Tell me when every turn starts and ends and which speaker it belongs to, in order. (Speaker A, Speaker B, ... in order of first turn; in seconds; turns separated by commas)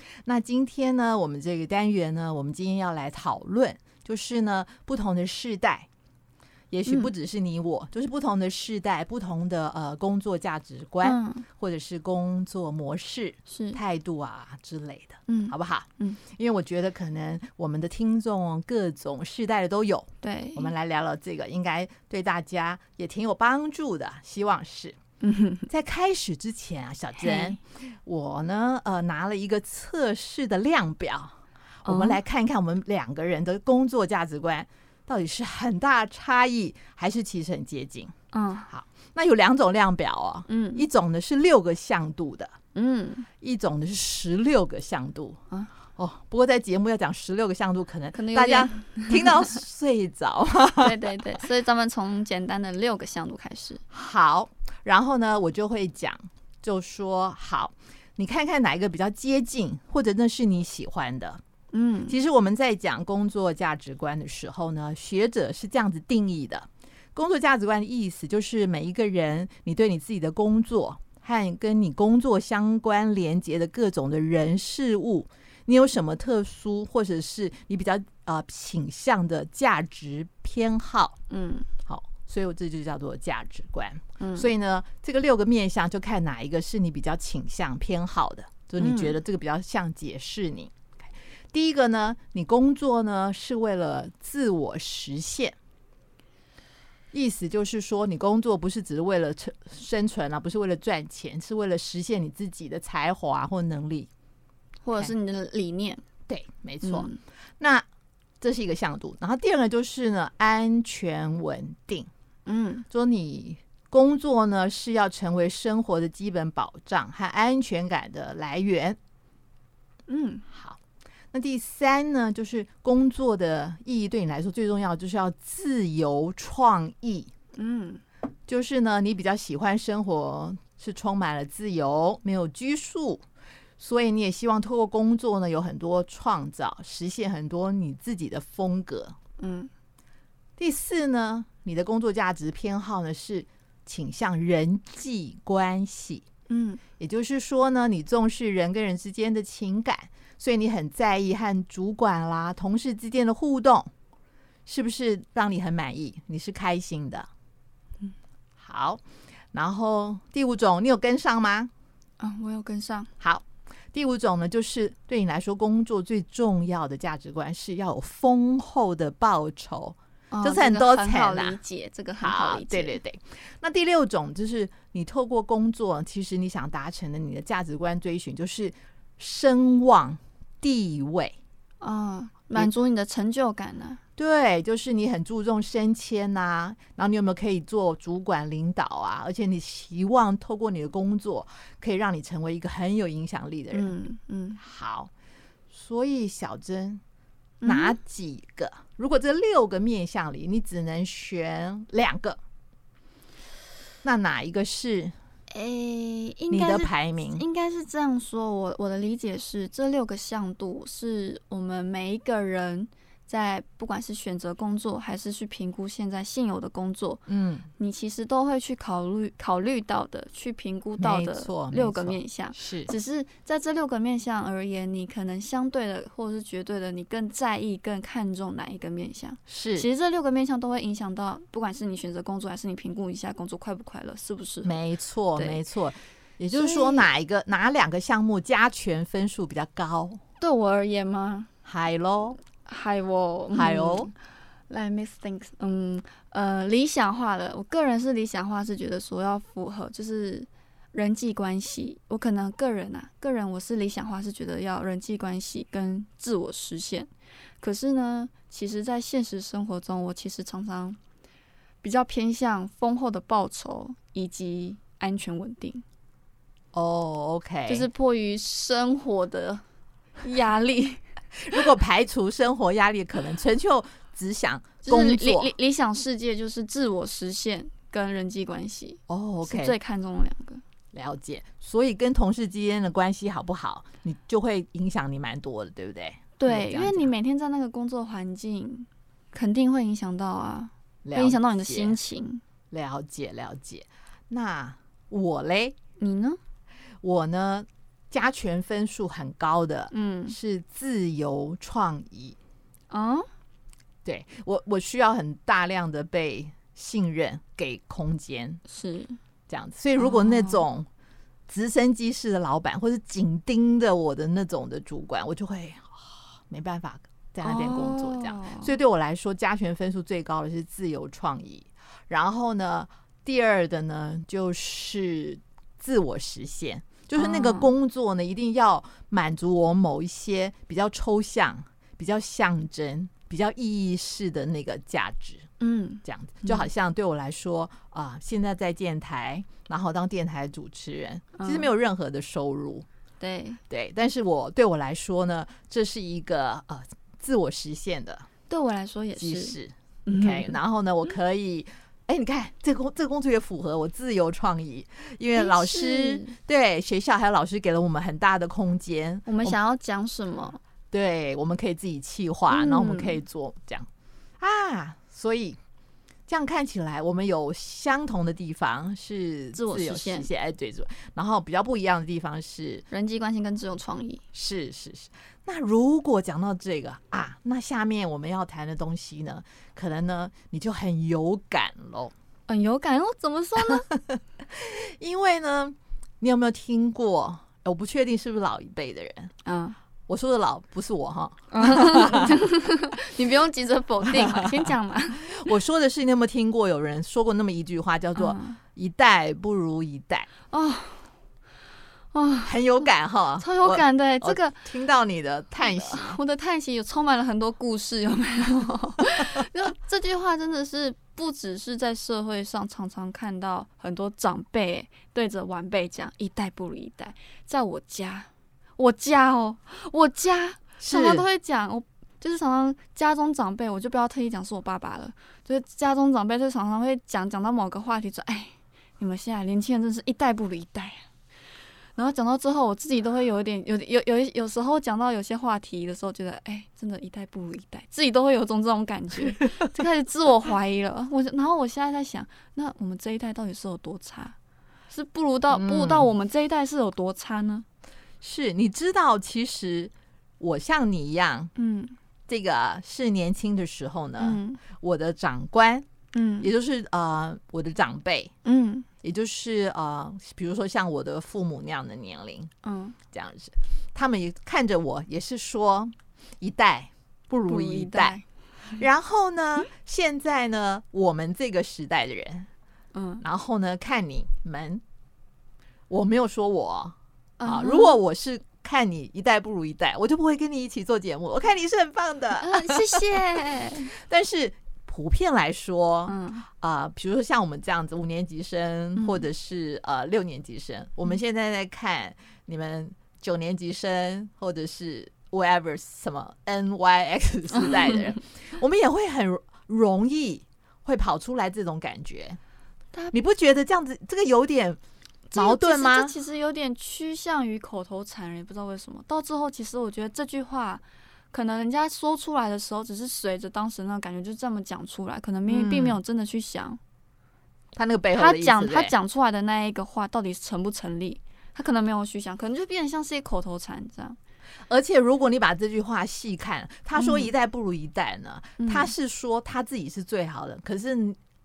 Speaker A: 0.3-5.9, Speaker A: 6.7-25.0, Speaker B: 6.9-7.1, Speaker B: 11.0-11.5, Speaker B: 13.5-13.8, Speaker B: 15.3-16.2, Speaker B: 20.2-20.7, Speaker B: 25.2-25.7, Speaker A: 25.7-38.1, Speaker B: 27.2-27.6, Speaker B: 31.9-32.2, Speaker B: 38.3-38.7, Speaker A: 38.7-42.5, Speaker B: 40.5-40.9, Speaker B: 42.8-43.3, Speaker A: 43.4-45.4, Speaker A: 46.0-51.2, Speaker B: 48.1-49.5, Speaker B: 50.8-53.8, Speaker A: 53.9-61.4, Speaker B: 61.7-62.1, Speaker A: 62.1-81.2, Speaker B: 81.3-81.7, Speaker A: 81.9-90.8, Speaker B: 84.2-84.5, Speaker B: 88.8-89.2, Speaker A: 91.5-95.6, Speaker A: 97.1-104.1, Speaker B: 104.8-106.0, Speaker A: 106.3-107.1, Speaker B: 106.8-107.2, Speaker A: 107.6-107.9, Speaker A: 108.4-112.1, Speaker B: 112.5-112.9, Speaker A: 112.9-119.0, Speaker B: 120.1-120.5, Speaker A: 120.5-120.8, Speaker A: 121.3-127.3, Speaker B: 127.6-128.0, Speaker A: 128.5-133.2, Speaker A: 133.8-139.2, Speaker B: 139.4-139.7, Speaker A: 140.6-146.3, Speaker B: 146.5-146.8, Speaker A: 147.0-153.9, Speaker A: 154.7-157.3, Speaker A: 158.6-159.0, Speaker A: 159.5-161.7, Speaker B: 162.2-163.1, Speaker A: 163.2-171.6, Speaker B: 170.3-173.0, Speaker A: 172.2-181.4, Speaker B: 181.8-184.0, Speaker A: 184.2-193.9, Speaker B: 193.7-194.6, Speaker A: 194.6-195.1, Speaker A: 195.7-197.0, Speaker B: 197.6-198.0, Speaker A: 197.7-202.4, Speaker A: 204.0-205.2, Speaker B: 205.5-217.2, Speaker A: 206.5-207.4, Speaker A: 217.3-217.7, Speaker B: 217.8-234.7, Speaker A: 221.0-222.9, Speaker A: 229.5-229.9, Speaker A: 234.7-240.2, Speaker B: 235.4-235.6, Speaker B: 236.5-237.1, Speaker B: 240.4-241.5, Speaker A: 241.7-242.4, Speaker B: 242.5-244.1, Speaker A: 243.5-244.1, Speaker B: 244.7-261.0, Speaker B: 261.8-265.8, Speaker A: 266.7-267.9, Speaker B: 267.7-269.6, Speaker B: 270.2-271.0, Speaker A: 271.4-275.5, Speaker B: 274.8-280.6, Speaker A: 279.1-279.7, Speaker A: 280.9-287.1, Speaker B: 286.4-292.4, Speaker A: 291.1-292.0, Speaker A: 292.7-295.8, Speaker B: 296.0-296.4, Speaker A: 297.0-302.4, Speaker B: 299.9-300.4, Speaker B: 302.9-303.3, Speaker A: 304.1-308.6, Speaker B: 308.7-309.2, Speaker A: 309.5-310.9, Speaker B: 310.0-310.6, Speaker A: 311.5-335.5, Speaker B: 317.4-318.7, Speaker B: 327.2-327.7, Speaker B: 335.6-336.7, Speaker A: 336.1-342.9, Speaker B: 341.4-341.7, Speaker B: 343.2-343.6, Speaker A: 343.7-348.3, Speaker B: 348.5-350.6, Speaker A: 349.2-359.6, Speaker B: 355.3-356.3, Speaker B: 359.3-360.6, Speaker A: 360.9-363.9, Speaker B: 362.5-363.2, Speaker A: 364.4-365.6, Speaker A: 366.3-372.9, Speaker B: 369.5-370.3, Speaker B: 372.9-374.2, Speaker A: 374.3-382.1, Speaker B: 382.5-383.9, Speaker A: 383.9-389.3, Speaker B: 389.4-389.8, Speaker A: 390.1-392.4, Speaker B: 391.5-395.4, Speaker A: 394.1-394.6, Speaker A: 395.3-400.3, Speaker B: 398.2-398.6, Speaker B: 400.5-401.1, Speaker B: 402.1-404.6, Speaker A: 402.4-406.2, Speaker B: 405.6-431.1, Speaker A: 420.8-421.2, Speaker B: 432.0-444.4, Speaker B: 444.9-447.7, Speaker A: 445.5-446.1, Speaker A: 448.2-451.5, Speaker B: 451.6-452.0, Speaker A: 452.3-455.9, Speaker B: 454.2-454.6, Speaker B: 456.1-456.5, Speaker A: 456.4-458.3, Speaker B: 458.4-458.9, Speaker A: 459.0-462.5, Speaker B: 462.6-463.0, Speaker A: 463.1-468.2, Speaker B: 467.5-468.2, Speaker A: 468.8-472.5, Speaker B: 472.9-473.2, Speaker A: 473.2-474.8, Speaker A: 475.9-483.0, Speaker B: 477.4-478.0, Speaker B: 482.4-483.9, Speaker A: 483.6-502.4, Speaker B: 486.1-486.5, Speaker B: 489.0-489.2, Speaker B: 497.6-498.1, Speaker A: 503.1-504.8, Speaker B: 505.3-516.8, Speaker A: 505.3-506.1, Speaker A: 515.5-516.0, Speaker A: 517.8-519.0, Speaker B: 518.2-524.2, Speaker A: 524.7-531.2, Speaker B: 527.0-527.3, Speaker B: 528.6-528.9